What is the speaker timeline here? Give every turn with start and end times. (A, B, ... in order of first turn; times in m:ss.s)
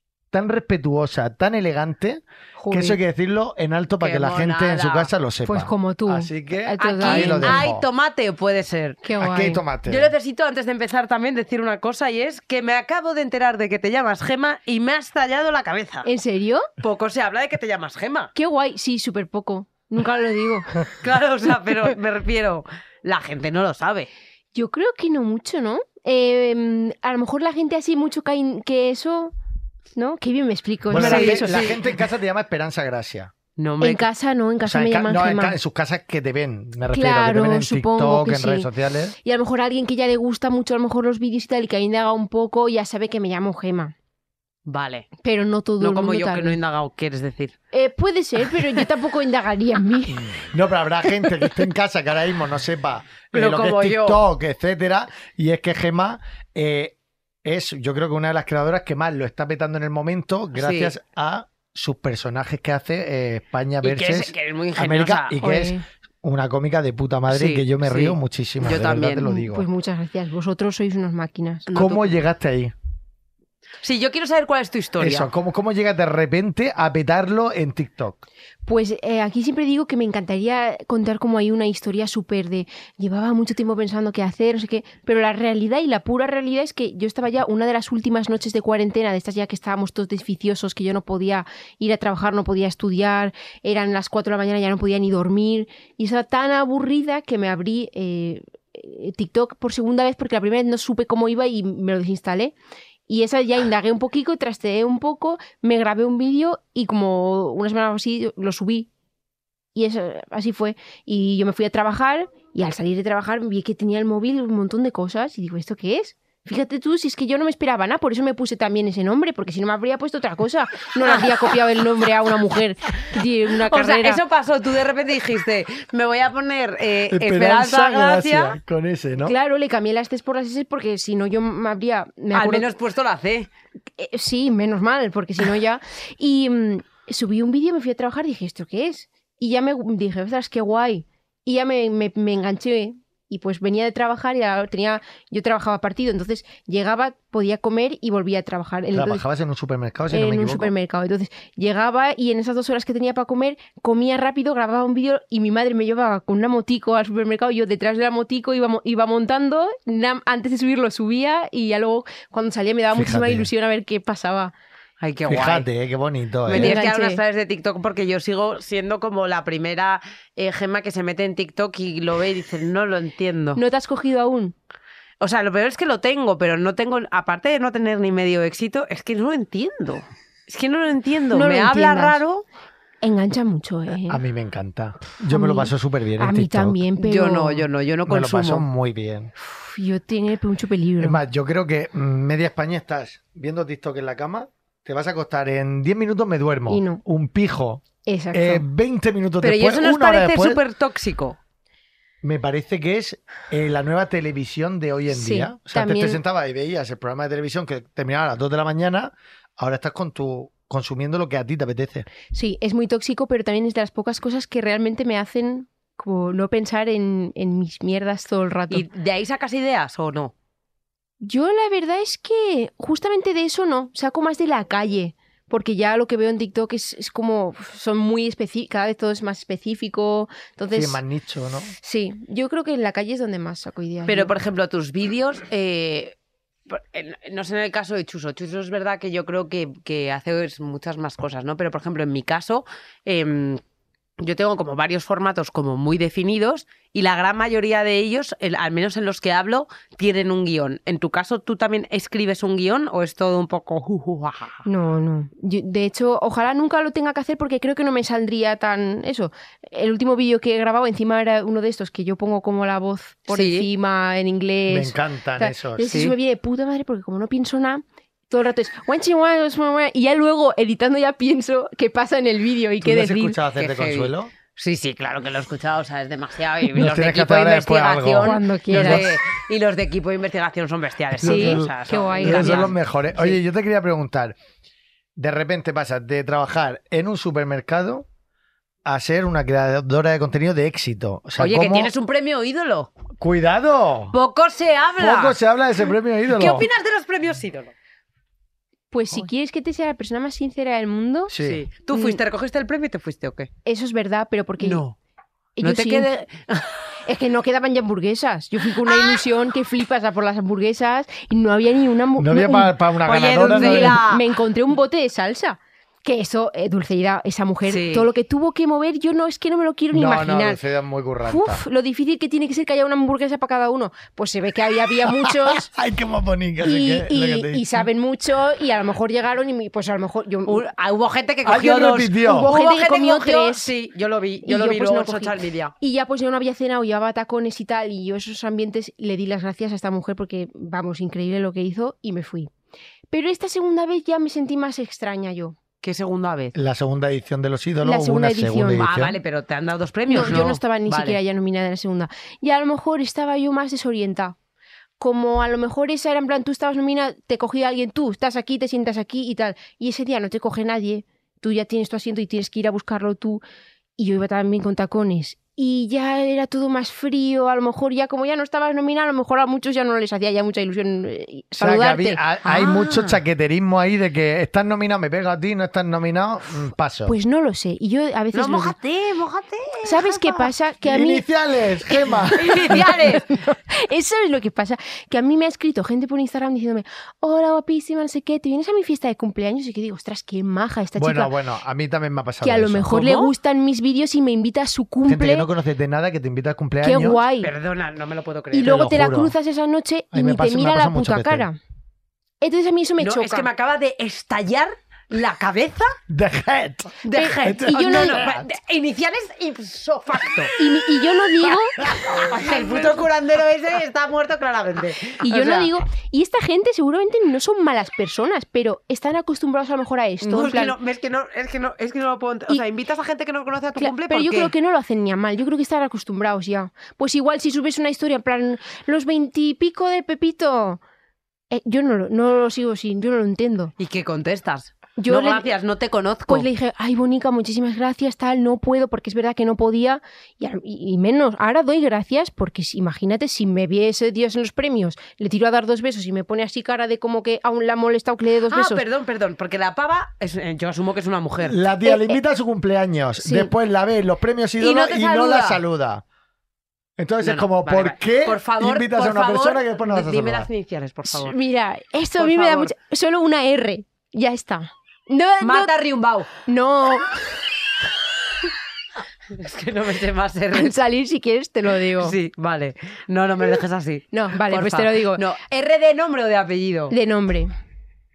0:00.3-0:07.8 A
0:02.6-0:03.0 B
0:04.0-0:05.1 C
0:05.4-0:07.7 B
0:06.8-0:09.0 C
0:09.0-0:09.6 B
0:09.2-0:10.1 A
0:09.8-0:16.1 C
0:16.0-0:16.7 B
0:16.8-0:18.3 C
0:18.3-0:20.7 B
0:21.0-0:24.1 C
0:24.5-0:29.3 B
0:30.0-0:31.6 B
0:30.9-0:33.3 A
0:30.9-0:31.9 C
0:33.6-0:34.0 C
0:33.8-0:35.6 B
0:34.6-0:39.1 A
0:36.9-0:38.7 B
0:39.2-0:43.9 B
0:44.6-0:45.1 C
0:45.2-0:46.6 B
0:45.8-0:47.6 C
0:47.7-0:50.3 B
0:50.1-1:09.6 A
0:53.3-0:54.2 C
1:00.5-1:00.9 C
1:03.8-1:05.4 C
1:05.4-1:05.8 B
1:07.3-1:09.2 C
1:09.2-1:11.6 B
1:11.7-1:12.2 C
1:11.7-1:12.7 A
1:13.8-1:15.3 C
1:15.0-1:18.2 A
1:18.6-1:42.5 B
1:43.1-1:48.9 B
1:49.7-2:04.2 B
2:01.0-2:01.3 C
2:03.7-2:08.6 C
2:07.1-2:09.3 A
2:09.2-2:12.6 B
2:12.3-2:13.5 C
2:14.0-2:29.2 B
2:28.9-2:30.7 A
2:30.1-2:44.5 B
2:42.9-2:43.5 A
2:45.0-2:45.7 C
2:45.3-2:46.8 A
2:46.5-2:53.6 C
2:46.5-2:47.2 B
2:53.6-2:54.5 B
2:55.2-3:02.4 C
3:01.3-3:02.2 B
3:03.0-3:04.2 B
3:04.1-3:06.8 A
3:05.3-3:07.6 B
3:07.0-3:08.6 C
3:08.1-3:09.3 A
3:09.4-3:11.2 B
3:11.0-3:20.6 A
3:16.7-3:17.0 B
3:18.0-3:18.6 B
3:19.4-3:21.4 C
3:22.2-3:32.0 A
3:25.1-3:26.2 B
3:32.3-3:38.8 B
3:38.7-3:40.3 C
3:41.2-3:51.0 B
3:50.7-3:51.7 A
3:51.8-3:54.3 B
3:54.1-3:56.2 C
3:56.7-4:03.6 C
4:04.2-4:14.6 C
4:14.6-4:33.4 B
4:23.3-4:23.7 C
4:24.7-4:25.9 A
4:25.9-4:26.1 C
4:32.8-4:34.3 A
4:33.6-4:43.4 C
4:36.7-4:39.1 A
4:38.2-4:39.1 B
4:41.2-4:44.4 A
4:41.2-4:42.7 B
4:45.2-4:48.0 A
4:48.8-4:51.9 A
4:51.4-4:52.9 C
4:53.2-4:54.2 A
4:54.1-4:55.4 C
4:55.0-4:56.7 A
4:56.3-4:57.7 C
4:58.9-5:01.3 B
5:01.3-5:01.6 A
5:01.4-5:03.5 C
5:01.9-5:02.2 B
5:03.6-5:04.8 B
5:04.6-5:05.0 C
5:05.6-5:06.1 B
5:05.6-5:06.8 C
5:07.0-5:12.7 B
5:08.8-5:09.2 C
5:12.2-5:14.0 A
5:13.0-5:14.2 C
5:13.3-5:20.6 B
5:17.6-5:18.1 C
5:19.9-5:21.6 A
5:21.2-5:25.7 B
5:25.1-5:27.8 A
5:26.6-5:30.6 B
5:30.5-5:35.7 C
5:31.4-5:32.5 A
5:32.2-5:33.7 B
5:34.4-5:42.5 B
5:43.1-5:45.6 B
5:45.8-5:46.5 C
5:46.5-5:49.2 A
5:47.8-5:48.8 B
5:48.8-5:51.2 C
5:50.1-5:54.4 B
5:55.0-6:03.4 B
6:04.0-6:12.2 B
6:11.6-6:17.1 A
6:12.4-6:13.2 C
6:17.0-6:18.7 B
6:18.3-6:20.5 C
6:19.8-6:21.2 B
6:20.8-6:22.8 A
6:22.1-6:31.3 B
6:22.4-6:23.3 C
6:31.0-6:33.0 A
6:32.4-6:35.5 B
6:32.9-6:33.3 C
6:35.0-6:37.2 A
6:36.8-6:37.5 B
6:37.4-6:38.8 C
6:38.5-6:41.6 B
6:38.6-6:39.3 A
6:40.1-6:41.5 A
6:42.4-6:43.5 B
6:43.0-6:45.9 C
6:46.1-6:48.5 A
6:47.0-6:50.5 C
6:47.1-6:48.3 B
6:50.6-6:51.8 B
6:51.8-6:52.9 A
6:51.8-6:55.7 C
6:55.2-7:00.8 B
7:00.2-7:04.5 C
7:03.8-7:10.8 B
7:11.5-7:13.7 B
7:13.8-7:16.5 C
7:15.0-7:15.5 B
7:16.3-7:28.8 B
7:28.5-7:31.6 C
7:31.4-7:36.0 A
7:31.8-7:32.2 B
7:33.2-7:33.5 B
7:34.6-7:35.6 C
7:37.0-7:40.5 A
7:37.2-7:41.4 C
7:41.1-7:45.7 B
7:42.2-7:42.7 C
7:45.4-7:46.3 C
7:46.4-7:47.1 B
7:49.3-7:50.7 C
7:50.5-7:52.2 B
7:52.0-7:56.9 C
7:54.1-7:55.2 B
7:56.9-7:57.5 B